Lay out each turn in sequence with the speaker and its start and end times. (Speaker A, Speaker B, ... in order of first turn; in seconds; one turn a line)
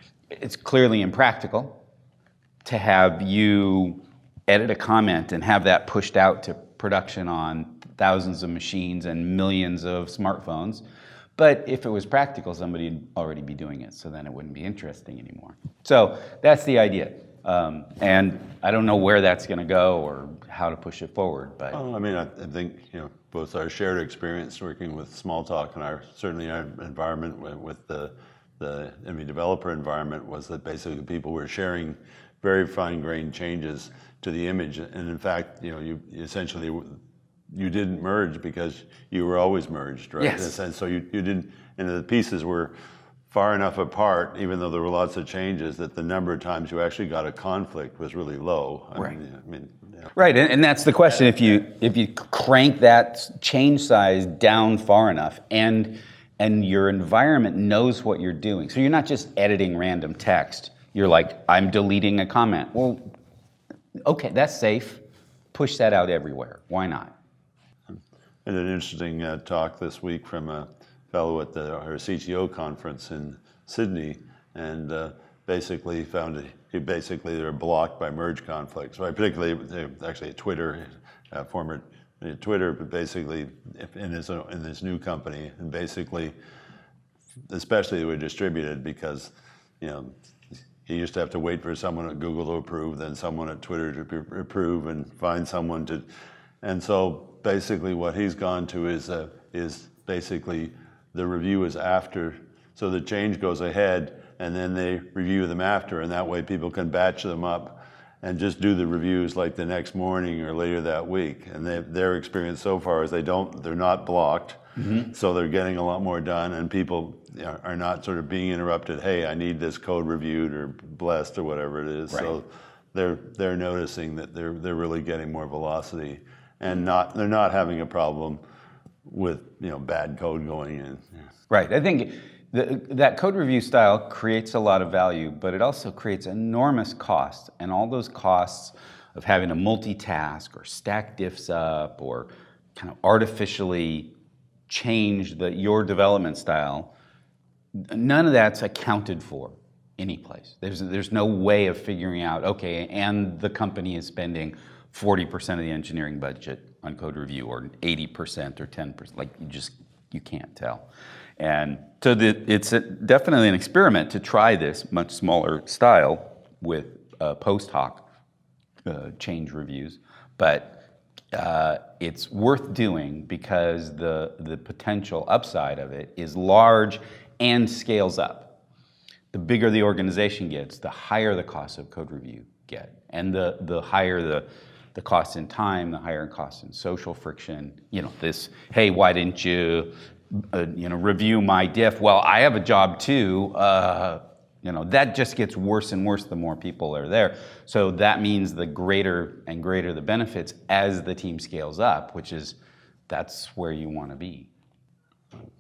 Speaker A: 0.3-1.8
Speaker A: 2.6-10.8
Speaker A: 11.4-21.8
Speaker B: 21.7-37.0
Speaker B: 37.5-42.7
Speaker A: 40.2-40.6
Speaker B: 43.3-50.1
Speaker A: 50.1-63.0
Speaker A: 64.0-65.0
Speaker A: 65.5-67.1
Speaker B: 68.5-86.3
Speaker B: 87.5-90.1
Speaker B: 90.8-96.0
Speaker B: 96.6-128.4
Speaker A: 114.8-115.1
Speaker B: 129.1-131.1
Speaker A: 131.5-144.1
Speaker A: 144.7-146.9
Speaker A: 147.8-160.9
Speaker A: 161.4-168.1
Speaker A: 168.8-178.5
Speaker A: 179.3-202.6
Speaker A: 203.1-204.5